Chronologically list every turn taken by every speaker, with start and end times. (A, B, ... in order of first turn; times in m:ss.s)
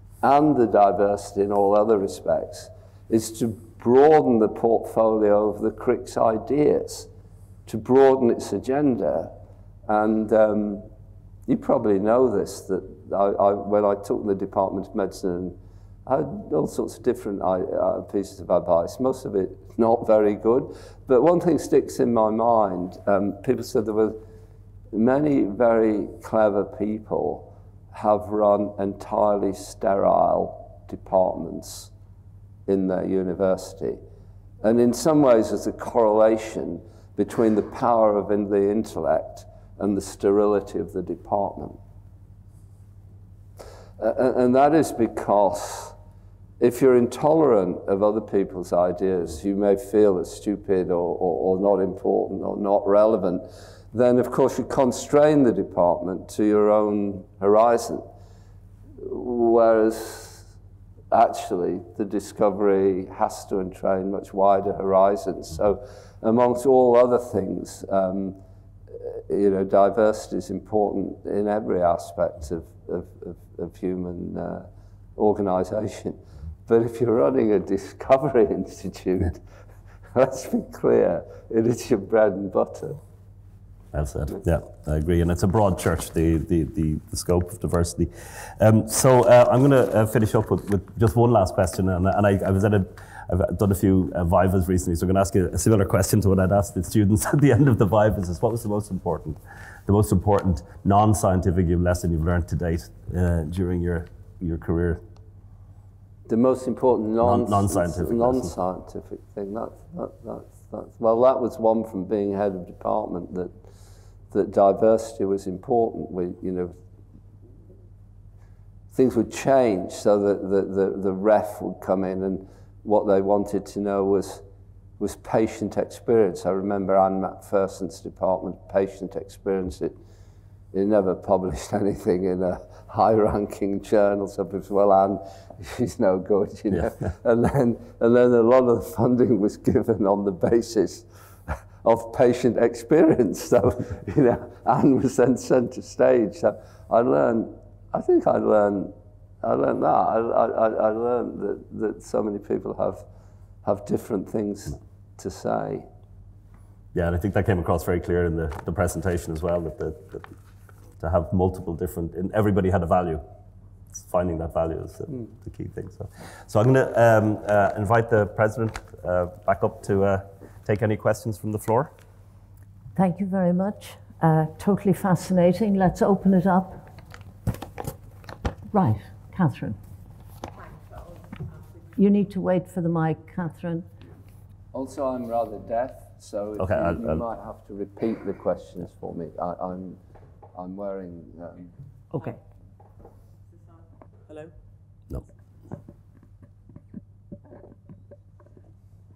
0:00.2-0:07.1 A
0:07.7-0:09.3 A
0:09.9-0:10.9 A
0:11.5-0:24.2 A
0:24.9-0:31.9 A
0:32.7-0:34.0 A
0:34.6-0:41.8 A
0:44.0-0:46.0 A
0:46.6-0:58.0 A
0:59.0-1:00.4 A
1:01.1-1:08.4 A
1:08.9-1:19.4 A
1:20.1-1:23.0 A
1:23.9-1:45.0 B
1:46.3-1:53.5 A
1:47.2-1:48.5 B
1:54.3-1:56.7 A
1:58.9-2:04.4 A
2:05.0-2:10.0 A
2:10.7-2:33.0 A
2:33.6-2:35.9 A
2:36.9-2:40.3 B
2:41.0-2:43.2 B
2:43.9-2:51.9 B
2:53.0-2:56.8 C
2:58.7-2:59.8 C
3:02.0-3:03.9 C
3:04.7-3:10.0 A
3:06.6-3:07.2 B
3:10.6-3:11.7 A